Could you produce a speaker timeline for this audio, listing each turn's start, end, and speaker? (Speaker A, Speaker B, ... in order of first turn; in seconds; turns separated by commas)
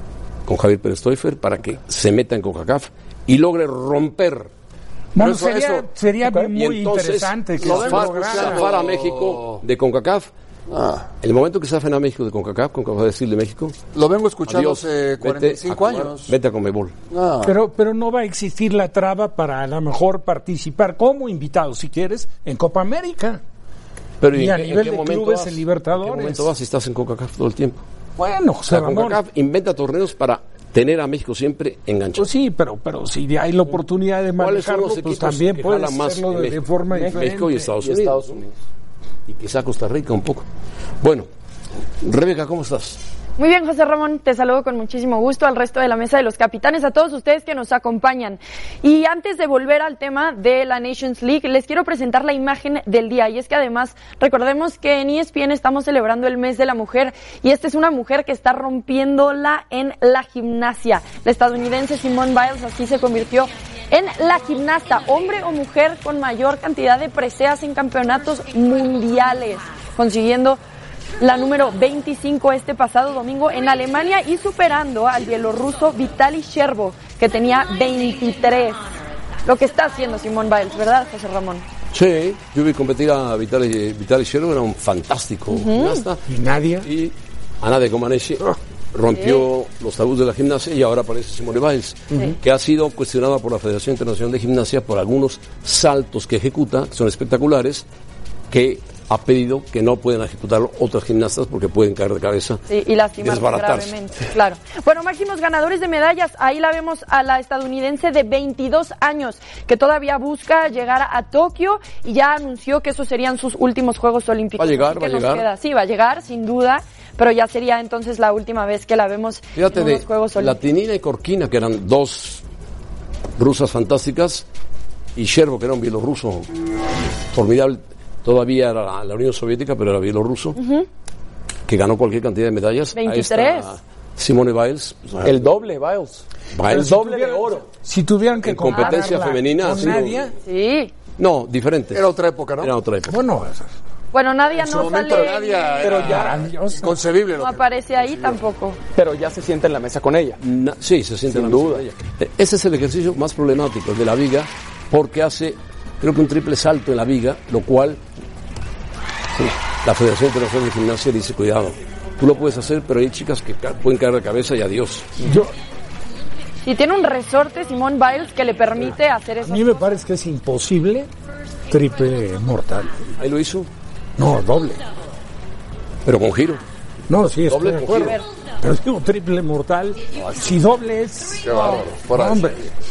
Speaker A: 0.5-4.5, Speaker B: 5.2-8.6, Speaker C: 5.2-5.9, Speaker D: 6.2-6.5, Speaker A: 6.5-10.3, Speaker C: 7.6-9.6, Speaker C: 10.7-11.1, Speaker A: 11.2-13.8, Speaker C: 13.9-16.3, Speaker A: 14.5-16.9, Speaker C: 17.1-17.6, Speaker B: 17.4-23.4, Speaker A: 24.2-27.8, Speaker B: 24.3-26.5, Speaker B: 28.2-29.2, Speaker A: 28.7-32.3, Speaker B: 32.2-37.7, Speaker A: 34.4-38.4, Speaker D: 36.9-38.5, Speaker A: 39.3-40.5, Speaker A: 41.0-41.3, Speaker A: 42.0-43.0, Speaker E: 43.4-70.6, Speaker E: 71.2-78.8, Speaker E: 79.5-81.7, Speaker A: 81.9-86.3, Speaker E: 85.5-86.0, Speaker B: 86.3-86.9, Speaker A: 86.8-97.9, Speaker E: 89.1-89.5, Speaker A: 98.5-102.6, Speaker E: 102.7-120.6, Speaker A: 103.2-104.0, Speaker A: 114.6-115.5, Speaker A: 119.5-122.4, Speaker A: 123.4-124.5, Speaker A: 125.2-126.5, Speaker A: 127.3-130.6, Speaker E: 130.6-130.9, Speaker A: 131.7-135.5, Speaker E: 132.9-133.7, Speaker D: 135.2-137.7, Speaker A: 136.5-136.9, Speaker B: 136.7-140.3, Speaker A: 138.4-140.3, Speaker E: 138.7-139.0, Speaker E: 140.4-140.9, Speaker A: 141.2-142.1, Speaker C: 141.9-142.7, Speaker A: 142.6-143.2, Speaker B: 143.1-143.7, Speaker E: 144.1-146.0, Speaker C: 144.5-148.4, Speaker D: 145.8-146.4, Speaker B: 146.0-147.0, Speaker E: 147.4-148.8, Speaker D: 148.9-150.4, Speaker A: 150.4-158.0, Speaker D: 151.3-151.8, Speaker A: 159.8-165.2, Speaker B: 165.2-165.5, Speaker E: 166.6-170.0, Speaker B: 169.4-171.1, Speaker B: 171.7-173.0, Speaker A: 173.2-173.7, Speaker B: 174.2-174.8, Speaker A: 176.0-176.6, Speaker B: 177.1-182.6, Speaker A: 177.4-178.2, Speaker C: 180.1-180.6, Speaker C: 181.4-182.7